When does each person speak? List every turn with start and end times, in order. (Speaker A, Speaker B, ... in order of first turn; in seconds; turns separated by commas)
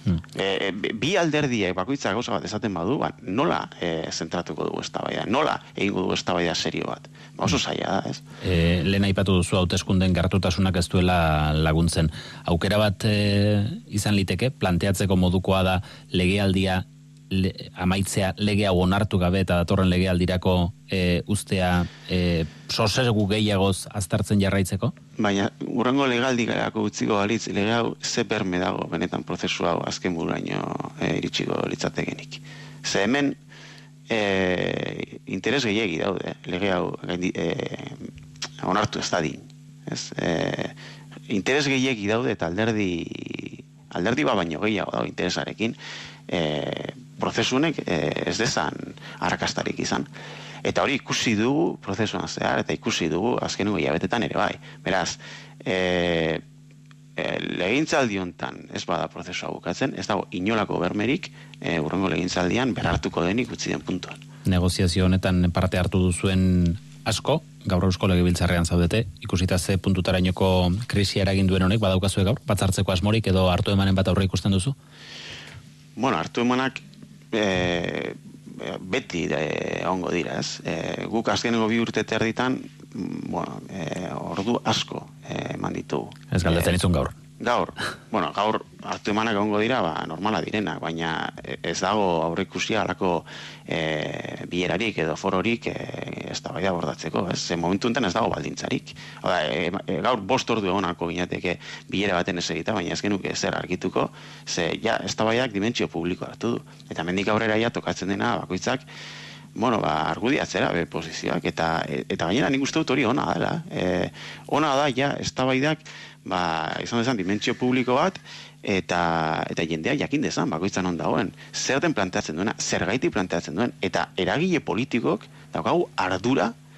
Speaker A: 0.3-8.2, Speaker B: 8.4-24.9, Speaker A: 25.2-33.4, Speaker A: 34.1-38.1, Speaker A: 38.6-40.7, Speaker A: 41.3-45.8, Speaker A: 46.3-50.1, Speaker A: 50.6-56.4, Speaker A: 57.2-64.2, Speaker B: 64.4-74.8, Speaker A: 76.0-86.7, Speaker B: 86.3-87.2, Speaker A: 87.4-108.8, Speaker A: 109.5-126.5